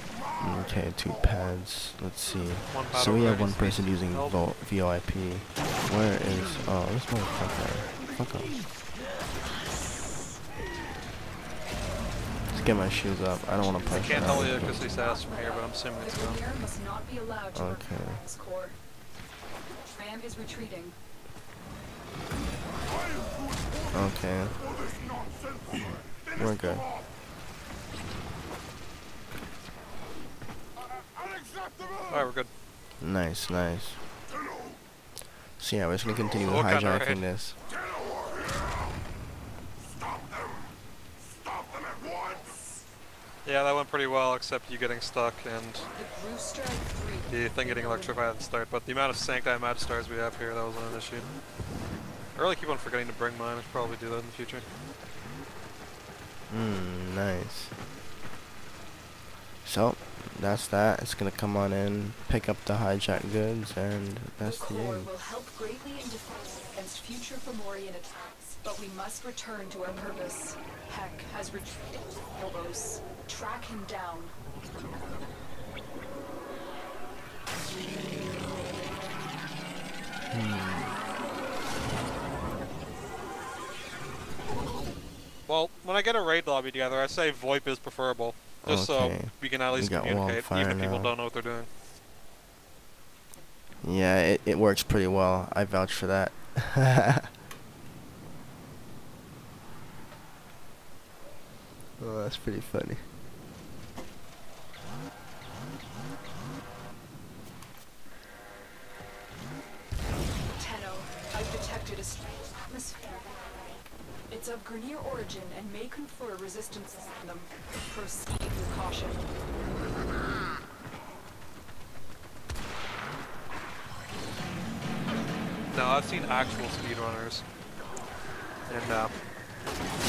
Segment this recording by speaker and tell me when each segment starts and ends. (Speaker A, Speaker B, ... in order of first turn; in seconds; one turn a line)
Speaker A: 0.4-8.6
Speaker B: 2.7-4.4
Speaker A: 12.5-14.7
Speaker C: 13.5-18.8
Speaker B: 13.9-16.4
Speaker A: 17.5-18.2
Speaker C: 19.9-21.0
Speaker A: 23.9-24.7
Speaker A: 25.7-26.9
Speaker B: 32.0-32.5
Speaker A: 33.0-34.0
Speaker A: 35.6-37.6
Speaker B: 36.4-37.2
Speaker B: 43.4-45.9
Speaker C: 45.9-48.4
Speaker B: 47.3-51.3
Speaker B: 52.3-54.6
Speaker A: 56.5-57.7
Speaker A: 59.6-65.1
Speaker C: 64.4-74.3
Speaker A: 80.3-81.0
Speaker B: 85.5-91.7
Speaker A: 88.7-91.1
Speaker A: 93.8-97.3
Speaker A: 102.0-103.1
Speaker C: 110.5-113.6
Speaker C: 114.3-119.2
Speaker B: 125.7-127.4
Speaker B: 128.7-129.1